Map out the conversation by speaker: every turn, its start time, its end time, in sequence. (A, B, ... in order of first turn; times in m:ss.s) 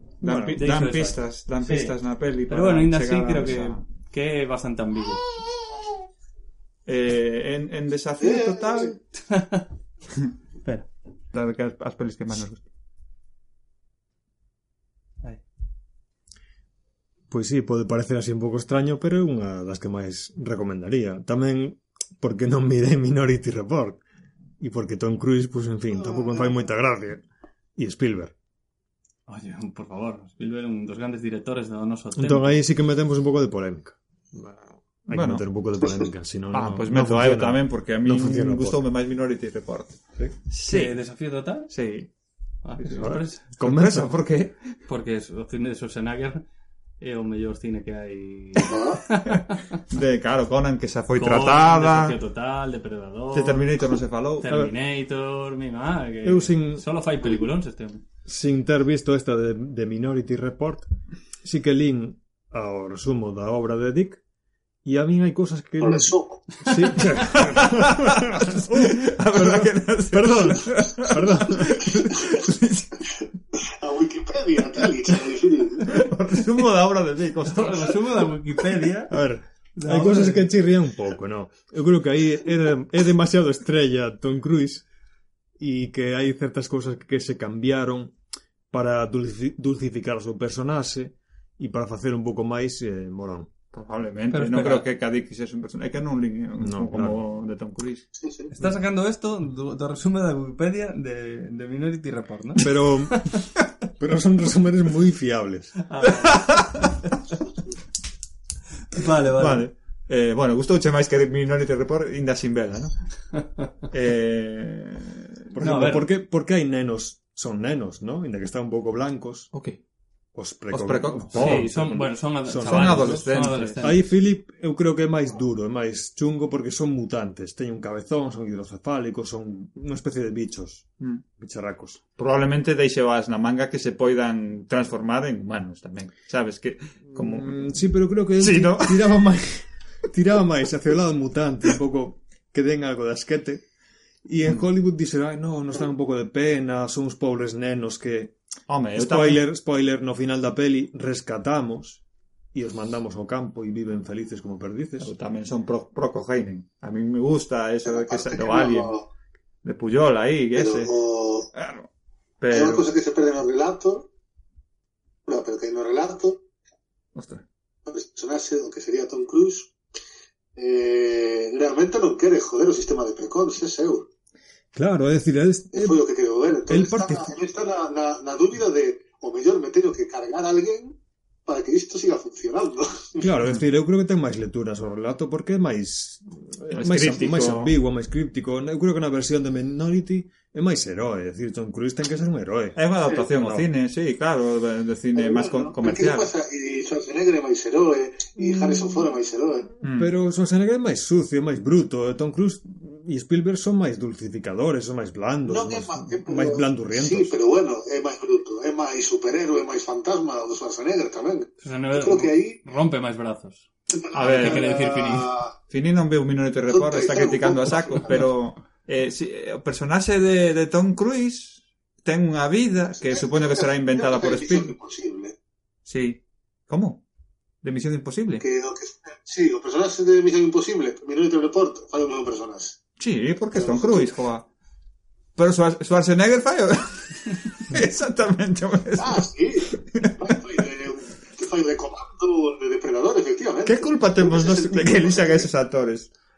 0:00.2-0:03.8 A
0:00.2-0:00.6 B
0:00.6-0:02.0 C
0:02.5-0:05.2 C
0:06.9-0:09.0 A
0:08.2-0:08.9 D
0:09.2-0:09.7 C
0:11.3-0:12.6 A
0:17.3-0:24.0 B
0:24.6-0:27.2 B
0:26.1-0:26.5 D
0:27.8-0:28.3 B
0:29.3-0:32.6 C
0:32.2-0:38.8 B
0:35.1-0:35.4 A
0:36.5-0:41.0 A
0:40.7-0:41.7 C
0:41.7-0:42.1 A
0:42.6-0:43.5 C
0:42.8-0:44.1 B
0:43.6-0:44.8 A
0:44.9-0:46.4 C
0:47.0-0:49.8 C
0:48.6-0:49.0 D
0:49.9-0:52.1 A
0:51.2-0:53.7 C
0:53.3-0:54.6 A
0:54.4-0:58.0 C
0:56.2-0:56.8 B
0:58.3-1:00.9 B
1:01.4-1:04.2 B
1:04.8-1:11.9 B
1:05.8-1:06.5 D
1:07.3-1:13.0 A
1:13.7-1:16.0 D
1:15.9-1:18.0 A
1:17.5-1:19.1 C
1:19.1-1:24.9 B
1:19.8-1:20.5 C
1:25.6-1:28.2 B
1:28.7-1:33.5 B
1:33.7-1:38.1 A
1:34.3-1:34.8 C
1:36.6-1:37.2 B
1:38.2-1:38.5 D
1:38.5-1:43.2 C
1:42.6-1:45.8 B
1:45.9-1:46.9 C
1:46.4-1:46.9 A
1:48.9-1:49.7 C
1:49.4-1:52.9 A
1:53.3-1:53.7 C
1:53.9-1:55.2 A
1:55.5-1:59.5 B
1:55.6-1:56.1 C
1:59.5-1:59.8 A
2:00.3-2:12.0 B
2:00.7-2:01.7 A
2:01.3-2:04.1 C
2:02.6-2:03.9 A
2:12.2-2:17.9 A
2:17.1-2:23.7 B
2:18.4-2:19.1 A
2:24.2-2:28.4 B
2:28.7-2:29.4 A
2:29.0-2:32.0 B
2:32.5-2:35.1 B
2:35.0-2:38.9 A
2:37.8-2:39.1 D
2:39.6-2:40.9 A
2:40.6-2:41.5 D
2:41.5-2:41.9 A
2:42.4-2:42.9 A
2:42.5-2:44.1 D
2:45.3-2:46.4 D
2:47.2-2:47.4 A
2:47.9-2:49.7 D
2:50.6-2:54.0 D
2:54.7-2:56.0 B
2:55.7-3:01.0 D
2:56.7-2:57.3 B
3:01.5-3:03.3 D
3:03.2-3:12.8 B
3:06.7-3:07.7 A
3:12.8-3:16.3 A
3:13.3-3:13.7 B
3:15.2-3:19.7 D
3:18.4-3:19.1 B
3:19.8-3:20.1 A
3:19.9-3:27.4 B
3:25.5-3:32.6 D
3:31.6-3:33.7 C
3:34.0-3:35.6 D
3:34.1-3:34.8 A
3:34.2-3:35.3 C
3:35.7-3:44.7 A
3:36.7-3:38.3 D
3:43.0-3:45.3 D
3:45.9-3:47.0 A
3:47.6-3:48.4 A
3:48.4-3:52.8 D
3:53.0-3:54.5 A
3:53.5-3:54.1 D
3:55.4-4:00.1 A
3:59.0-4:05.5 D
4:03.6-4:06.1 A